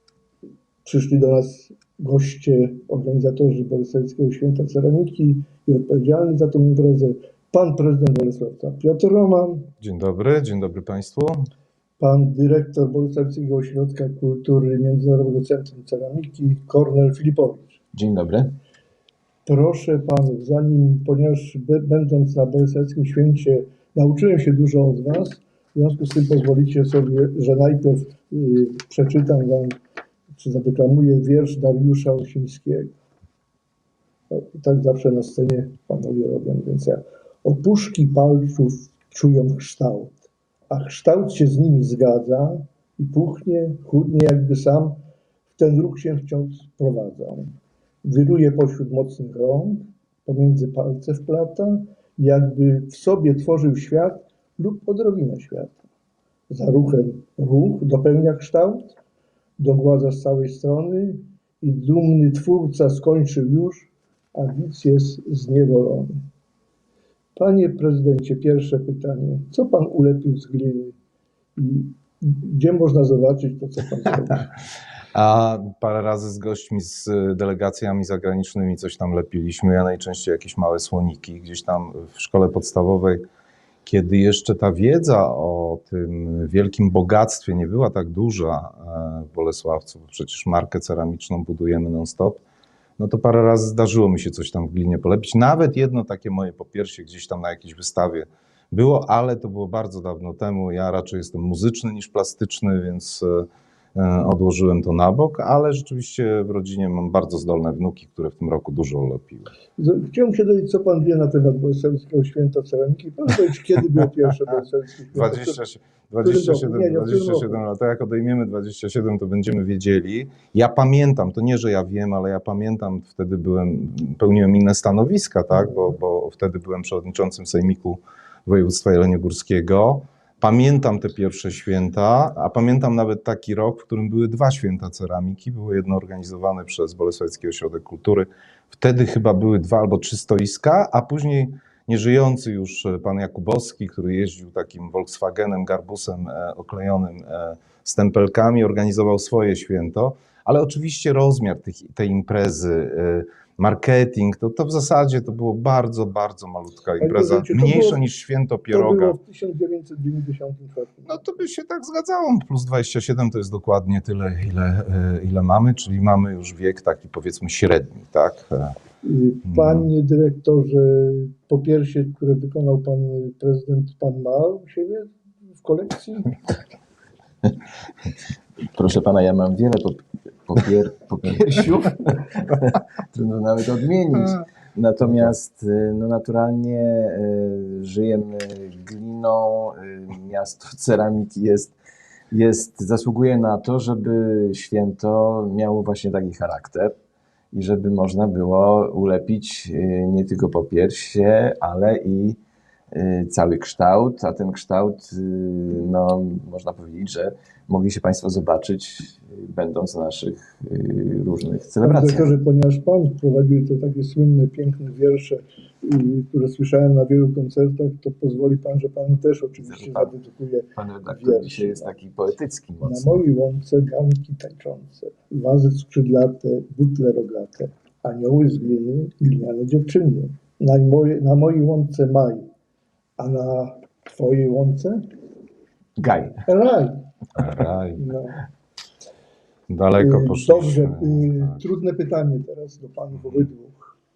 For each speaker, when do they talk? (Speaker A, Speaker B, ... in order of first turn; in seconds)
Speaker A: 0.8-9.7, 12.0-17.8, 19.5-29.8, 30.4-32.9, 34.3-45.0, 45.6-55.9, 56.5-59.0, 59.6-66.3, 67.4-71.0, 71.6-74.5, 109.8-115.6, 116.2-117.6, 157.0-158.0, 158.7-161.4, 169.0-176.4, 211.8-221.9, 222.8-232.5, 233.2-235.1, 236.5-237.1, 237.9-238.4, 240.0-243.9
Speaker B: 9.8-11.5, 75.1-83.2, 83.8-92.4, 93.0-109.5, 115.1-159.2, 161.1-168.8, 169.5-169.9, 237.4-238.1, 239.7-241.7
Speaker C: 17.9-18.6, 178.7-191.8, 192.3-197.0, 197.5-202.4, 202.9-212.3, 219.6-220.1, 220.8-223.2, 236.0-236.4